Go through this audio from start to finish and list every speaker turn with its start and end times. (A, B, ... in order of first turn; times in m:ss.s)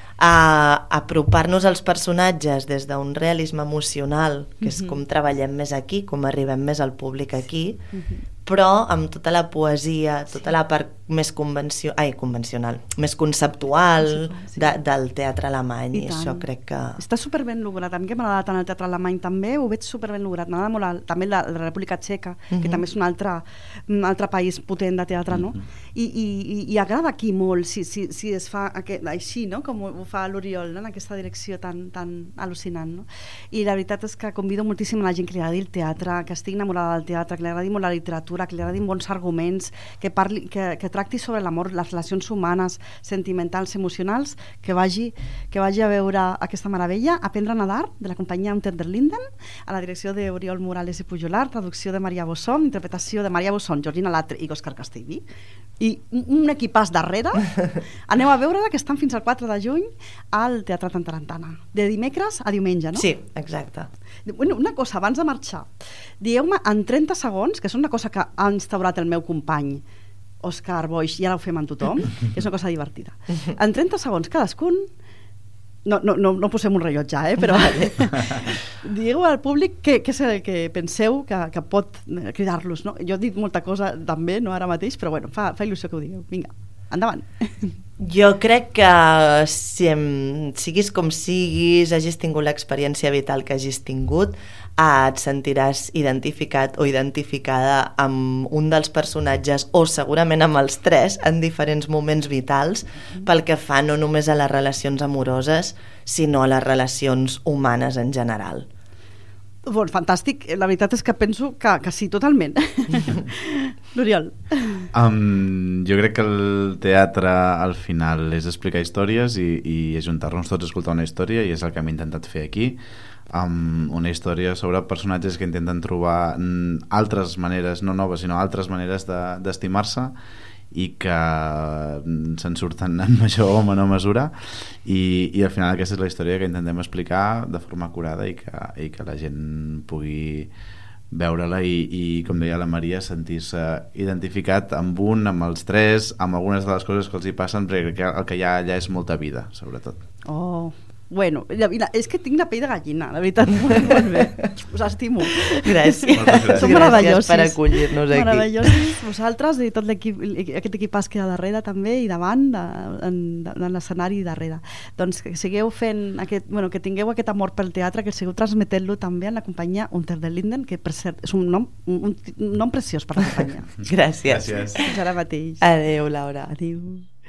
0:00.2-0:07.8 A
0:04.6-0:05.0 B
0:07.9-0:08.2 B
0:08.4-0:17.0 A
0:14.0-0:14.8 B
0:15.9-0:16.5 B
0:17.0-0:55.2 B
0:22.5-0:22.8 A
0:55.8-1:03.1 B
1:03.0-1:03.9 A
1:04.2-1:09.8 B
1:10.4-1:14.9 B
1:15.8-1:27.8 B
1:28.0-1:48.7 A
1:49.6-1:54.9 B
1:54.9-2:02.8 C
2:03.3-2:10.2 C
2:10.7-2:20.5 C
2:21.1-2:30.0 C
2:30.2-2:53.7 B
2:33.9-2:34.3 A
2:35.6-2:38.8 A
2:36.1-2:37.2 C
2:53.8-2:54.9 A
2:54.3-2:54.8 C
2:54.8-2:55.6 B
2:55.6-2:56.5 A
2:56.5-2:57.1 B